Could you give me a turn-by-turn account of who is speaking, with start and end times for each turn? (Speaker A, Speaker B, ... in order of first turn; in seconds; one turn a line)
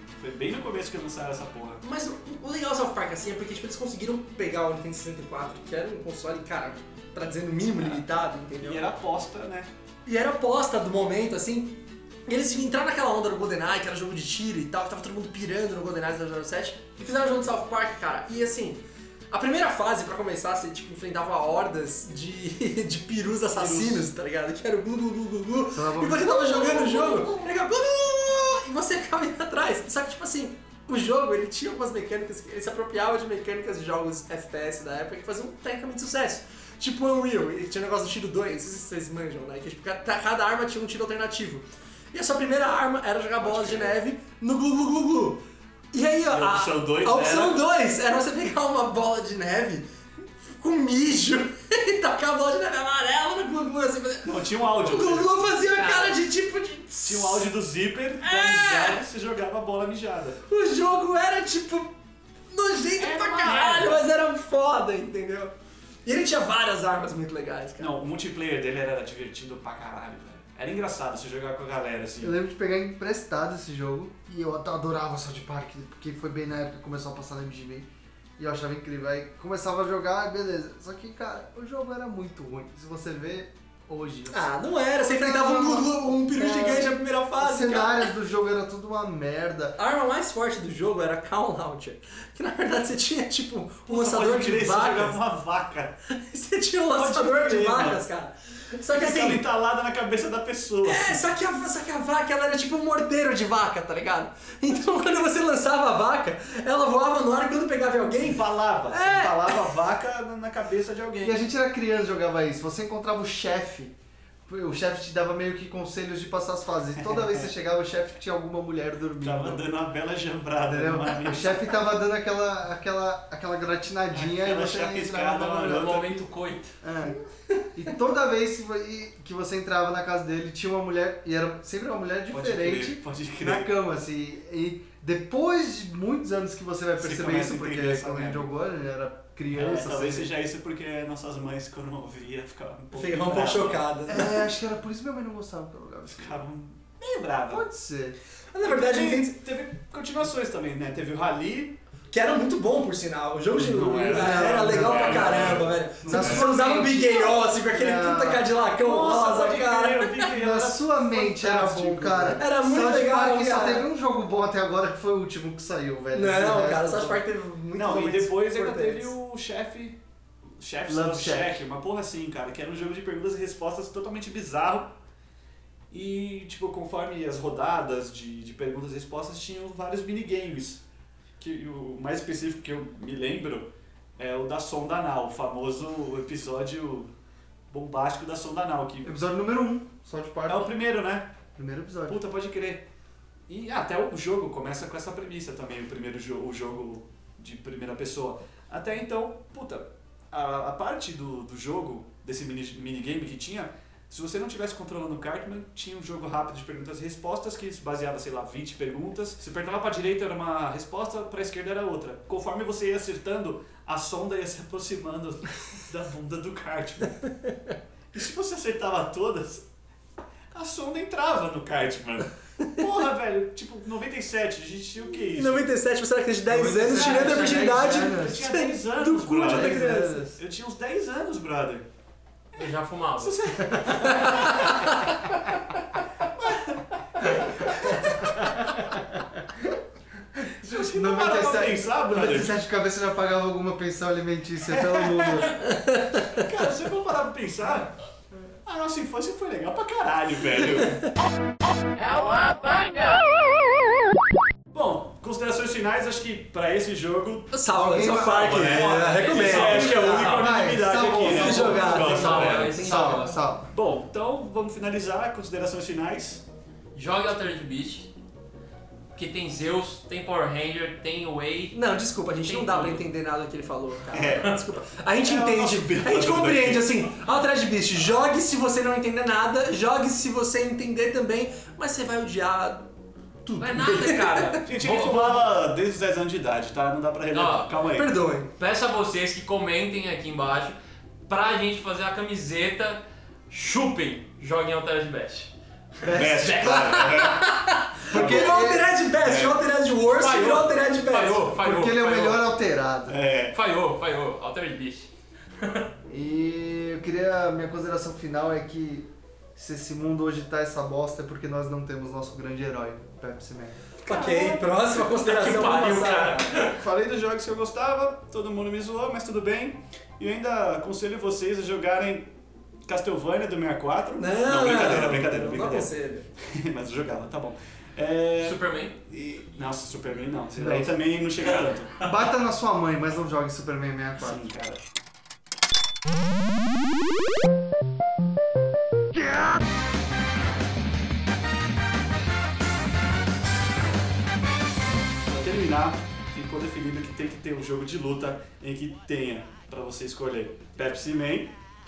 Speaker A: 0.2-1.8
Speaker B: 1.8-8.9
Speaker A: 8.6-9.7
Speaker B: 10.1-49.9
Speaker A: 23.5-24.1
Speaker C: 25.7-27.3
Speaker A: 43.4-44.0
Speaker A: 46.3-47.6
Speaker B: 50.4-57.5
Speaker A: 54.2-55.5
Speaker D: 55.6-56.2
Speaker A: 57.0-60.4
Speaker B: 58.2-59.0
Speaker B: 60.5-62.0
Speaker B: 62.5-65.5
Speaker D: 63.0-64.0
Speaker B: 66.0-68.0
Speaker A: 67.8-72.4
Speaker C: 72.2-89.8
Speaker B: 84.3-88.1
Speaker B: 89.8-95.2
Speaker A: 93.9-96.0
Speaker B: 96.1-99.4
Speaker A: 96.9-98.0
Speaker A: 98.9-101.3
Speaker B: 100.8-109.6
Speaker A: 108.2-111.4
Speaker C: 111.2-113.9
Speaker C: 114.5-119.7
Speaker A: 117.1-117.4
Speaker A: 119.2-121.8
Speaker C: 120.6-125.8
Speaker A: 124.1-126.3
Speaker D: 125.6-126.7
Speaker C: 126.8-127.2
Speaker C: 127.7-140.3
Speaker A: 132.3-133.7
Speaker A: 137.0-138.5
Speaker A: 139.5-144.2
Speaker B: 142.9-144.3
Speaker C: 144.1-146.4
Speaker A: 146.1-147.6
Speaker C: 147.5-148.2
Speaker B: 148.5-149.4
Speaker A: 148.6-151.8
Speaker B: 152.1-160.3
Speaker A: 153.5-156.4
Speaker C: 154.1-158.5
Speaker A: 158.8-162.5
Speaker C: 160.3-167.2
Speaker B: 162.4-163.9
Speaker B: 166.1-169.1
Speaker A: 167.8-170.0
Speaker A: 170.6-174.9
Speaker C: 170.9-171.6
Speaker A: 175.9-180.8
Speaker A: 181.4-187.1
Speaker A: 187.7-189.1
Speaker C: 189.0-190.7
Speaker A: 190.5-191.3
Speaker C: 191.6-192.2
Speaker A: 192.1-192.8
Speaker A: 193.5-217.2
Speaker B: 217.3-217.5
Speaker A: 218.1-219.6
Speaker A: 220.5-225.7
Speaker B: 225.3-230.2
Speaker C: 226.5-228.5
Speaker A: 226.9-231.8
Speaker C: 229.3-230.4
Speaker D: 232.5-234.5
Speaker A: 233.2-235.2
Speaker B: 234.0-235.0
Speaker A: 236.3-239.0
Speaker A: 240.6-242.6
Speaker C: 240.6-245.5
Speaker A: 244.7-245.6
Speaker B: 245.6-246.2
Speaker A: 246.1-247.9
Speaker A: 248.7-251.1
Speaker A: 254.7-262.9
Speaker B: 257.5-260.3
Speaker C: 257.7-258.8
Speaker D: 258.6-263.4
Speaker C: 260.2-262.1
Speaker B: 261.2-263.3
Speaker C: 262.7-263.7
Speaker A: 263.7-266.4
Speaker D: 266.9-268.1
Speaker D: 269.1-271.8
Speaker B: 271.7-282.9
Speaker D: 272.4-273.0
Speaker A: 274.1-274.6
Speaker A: 275.2-277.0
Speaker B: 283.4-284.6
Speaker D: 283.6-285.5
Speaker A: 284.6-288.2
Speaker D: 287.3-287.7
Speaker B: 287.9-288.5
Speaker D: 288.6-295.5
Speaker C: 296.0-297.0
Speaker A: 296.0-297.5
Speaker B: 296.6-301.5
Speaker A: 298.1-298.5
Speaker C: 298.1-298.9
Speaker A: 299.2-299.6
Speaker D: 300.1-302.5
Speaker C: 301.6-303.2
Speaker A: 303.1-303.6
Speaker D: 303.5-305.9
Speaker C: 306.1-313.8
Speaker B: 314.0-316.4
Speaker A: 314.1-322.3
Speaker D: 315.2-316.8
Speaker A: 322.9-332.0
Speaker B: 324.2-326.2
Speaker D: 328.4-329.0
Speaker C: 330.6-330.9
Speaker C: 332.0-334.5
Speaker A: 334.2-334.8
Speaker A: 345.2-351.5